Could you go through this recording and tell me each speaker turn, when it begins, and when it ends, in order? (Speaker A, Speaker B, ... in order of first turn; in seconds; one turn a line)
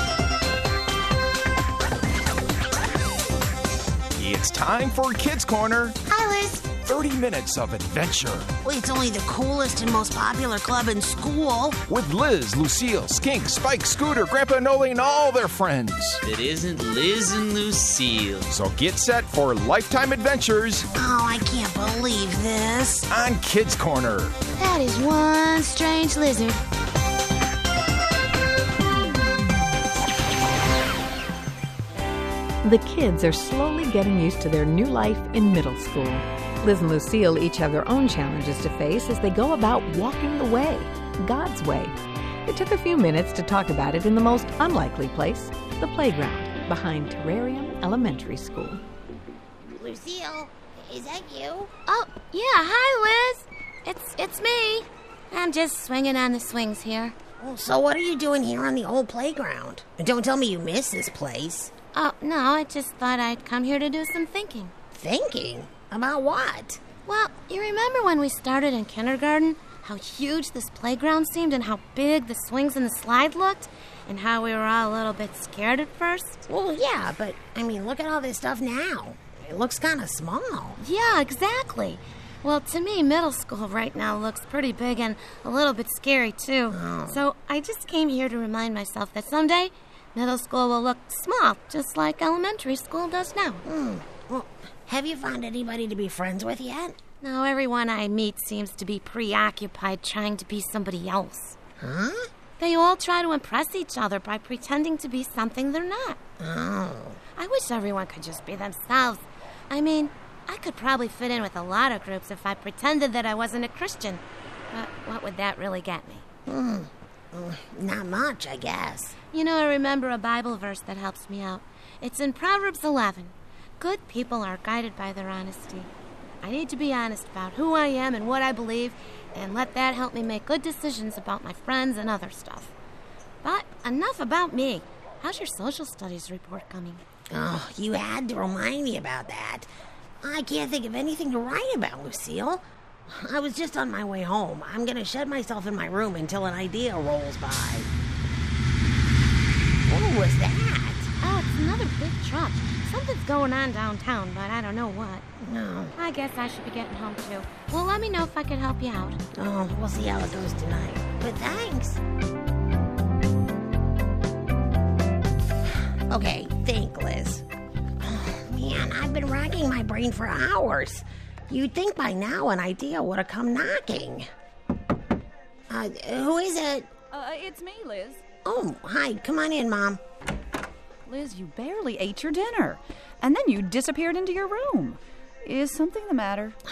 Speaker A: 4.1-6.0
Speaker B: 6.0-6.8
Speaker A: 6.8-8.5
Speaker B: 8.6-11.8
Speaker A: 11.9-16.2
Speaker C: 16.2-18.5
Speaker A: 18.5-20.8
Speaker B: 20.9-23.1
Speaker A: 23.1-24.3
Speaker D: 24.6-26.6
Speaker E: 32.6-41.9
Speaker E: 42.5-48.8
Speaker B: 49.7-51.7
Speaker D: 51.9-57.2
Speaker B: 57.4-61.8
Speaker D: 61.9-64.7
Speaker B: 64.9-66.8
Speaker D: 67.0-76.5
Speaker B: 76.5-80.8
Speaker D: 80.8-93.6
Speaker B: 86.7-87.2
Speaker B: 93.7-97.0
Speaker D: 97.2-101.6
Speaker B: 101.8-102.3
Speaker D: 102.6-106.2
Speaker B: 106.4-107.2
Speaker D: 107.4-116.2
Speaker B: 116.5-119.2
Speaker D: 119.3-125.9
Speaker D: 126.4-132.7
Speaker D: 133.4-137.0
Speaker B: 137.3-139.7
Speaker B: 140.2-147.9
Speaker B: 149.9-151.1
Speaker D: 151.2-155.2
Speaker B: 155.4-155.9
Speaker D: 156.0-159.2
Speaker B: 159.3-162.0
Speaker B: 166.1-167.4
Speaker B: 168.0-174.2
Speaker B: 175.7-176.9
Speaker F: 177.1-178.2
Speaker B: 178.4-180.0
Speaker F: 181.1-186.6